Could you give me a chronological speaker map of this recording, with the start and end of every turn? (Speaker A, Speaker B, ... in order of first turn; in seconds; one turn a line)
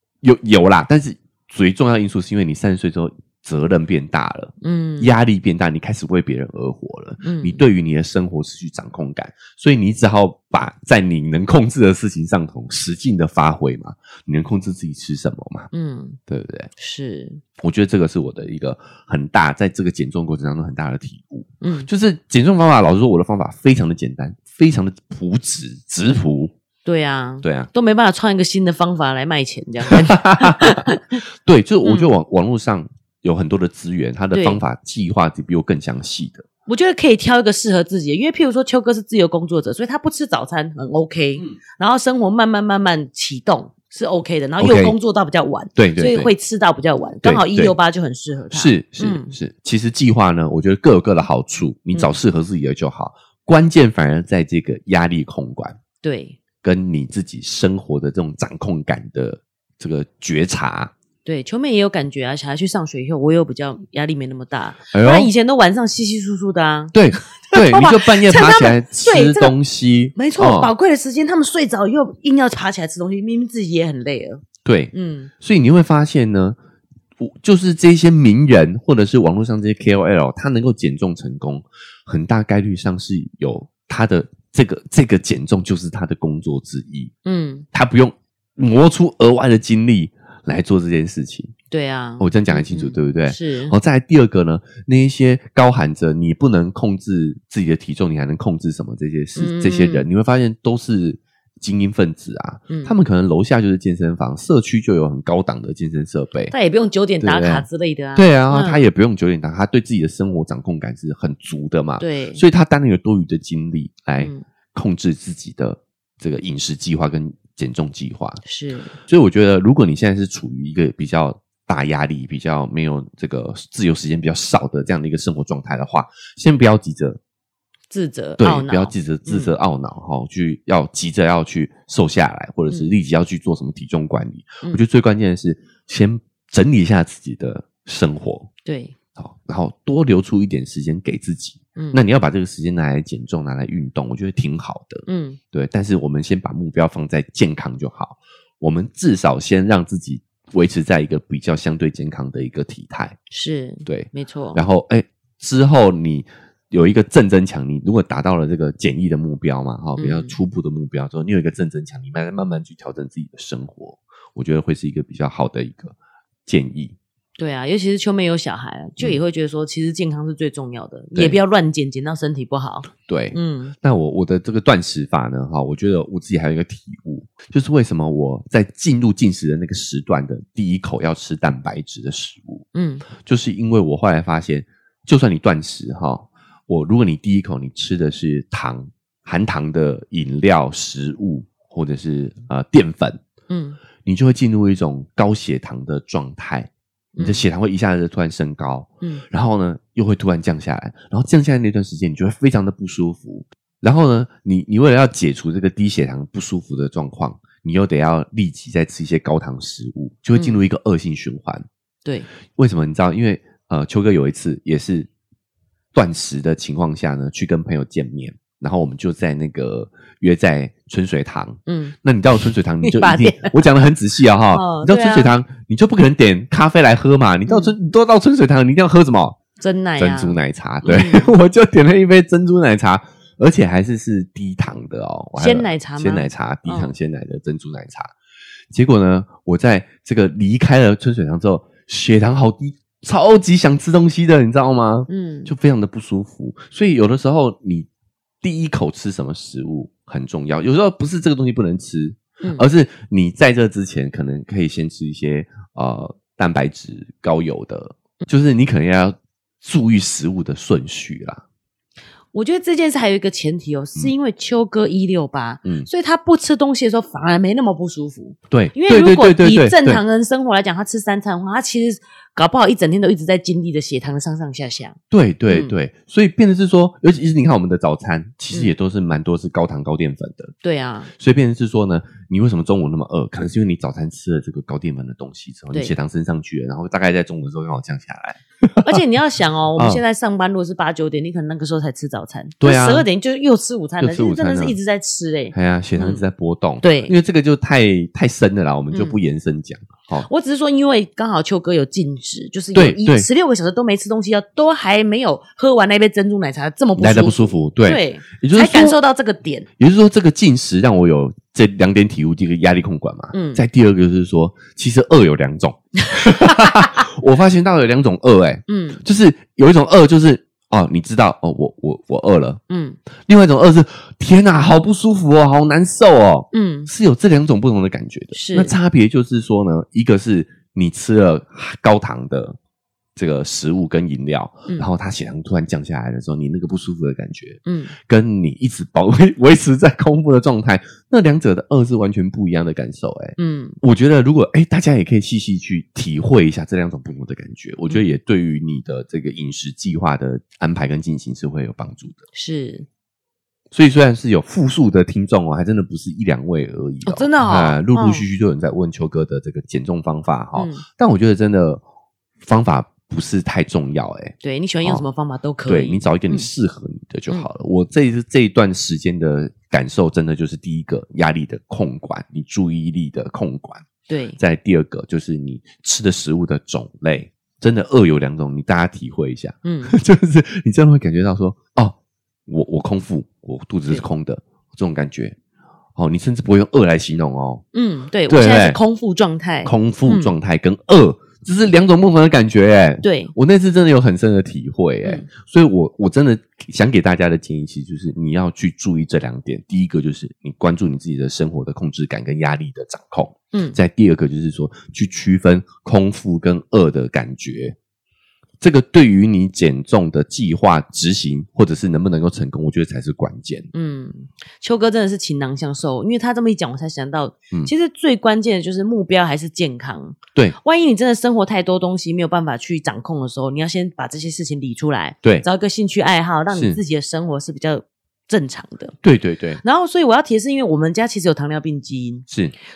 Speaker A: 0.2-15.7
Speaker B: 4.6-5.1
Speaker B: 7.2-7.6
Speaker B: 15.7-16.2
Speaker A: 16.3-16.7
Speaker B: 16.8-17.4
Speaker A: 17.6-26.6
Speaker B: 21.6-21.9
Speaker B: 26.9-31.2
Speaker A: 27.4-27.7
Speaker A: 29.9-36.4
Speaker B: 31.8-32.1
Speaker B: 34.3-34.6
Speaker B: 36.7-49.3
Speaker A: 44.6-45.0
Speaker A: 45.8-46.3
Speaker A: 47.2-47.8
Speaker A: 48.5-55.8
Speaker B: 56.0-56.4
Speaker A: 56.6-60.9
Speaker B: 61.2-67.0
Speaker A: 64.9-65.3
Speaker A: 66.9-70.7
Speaker B: 67.5-69.5
Speaker B: 70.2-75.3
Speaker A: 74.7-76.6
Speaker A: 77.2-87.1
Speaker B: 87.2-87.7
Speaker A: 87.7-91.5
Speaker B: 91.7-93.7
Speaker A: 92.2-106.5
Speaker B: 99.4-100.1
Speaker B: 102.7-102.9
Speaker B: 106.5-108.8
Speaker A: 107.2-118.4
Speaker B: 112.0-112.4
Speaker B: 114.2-114.4
Speaker B: 118.4-119.0
Speaker A: 119.1-127.2
Speaker B: 127.9-129.5
Speaker A: 128.4-138.5
Speaker B: 132.7-132.9
Speaker B: 138.7-138.9
Speaker A: 139.2-153.2
Speaker B: 145.1-145.4
Speaker B: 153.3-154.6
Speaker A: 153.9-165.9
Speaker B: 160.0-160.4
Speaker A: 166.5-167.0
Speaker B: 167.4-173.8
Speaker A: 171.2-171.4
Speaker A: 173.0-182.7
Speaker B: 182.7-183.1
Speaker A: 183.2-193.2
Speaker B: 193.5-193.8
Speaker A: 194.0-211.7
Speaker B: 197.2-197.4
Speaker B: 210.3-210.6
Speaker A: 212.6-215.1
Speaker A: 215.9-229.4
Speaker B: 221.7-221.9
Speaker B: 222.8-223.5
Speaker B: 224.5-225.3
Speaker B: 227.5-227.7
Speaker B: 229.6-231.3
Speaker A: 230.0-238.1
Speaker B: 235.4-236.9
Speaker A: 238.7-247.9
Speaker B: 245.1-245.5
Speaker A: 248.4-261.4
Speaker B: 262.3-275.0
Speaker A: 268.5-270.0
Speaker A: 275.1-280.6
Speaker B: 275.5-275.7
Speaker B: 280.6-281.1
Speaker A: 281.2-289.0
Speaker B: 288.8-296.2
Speaker A: 289.8-290.0
Speaker A: 292.6-293.1
Speaker A: 294.0-294.8
Speaker A: 295.5-300.3
Speaker B: 296.8-297.1
Speaker B: 298.9-299.2
Speaker B: 300.2-309.7
Speaker A: 302.7-303.3
Speaker A: 307.0-309.0
Speaker A: 309.8-322.6
Speaker B: 313.3-313.6
Speaker B: 316.2-316.9
Speaker B: 318.7-319.0
Speaker B: 322.7-323.0
Speaker A: 323.3-332.6
Speaker B: 326.5-326.9
Speaker B: 328.3-328.8
Speaker A: 333.2-352.2
Speaker B: 337.7-337.9
Speaker B: 343.4-343.8
Speaker B: 352.4-352.9
Speaker A: 353.7-361.8
Speaker B: 357.0-358.2
Speaker B: 360.6-360.8
Speaker A: 362.4-365.1
Speaker B: 364.4-366.5
Speaker A: 365.6-373.9
Speaker B: 374.1-374.4
Speaker A: 374.4-382.0
Speaker B: 379.6-379.9
Speaker A: 382.5-385.4
Speaker A: 386.0-387.6
Speaker B: 387.7-390.3
Speaker A: 388.3-388.8
Speaker A: 389.6-407.8
Speaker B: 393.0-393.3
Speaker A: 408.6-413.7
Speaker B: 413.7-429.0
Speaker A: 426.5-426.8
Speaker A: 429.0-429.6
Speaker B: 429.6-432.2
Speaker A: 432.3-432.5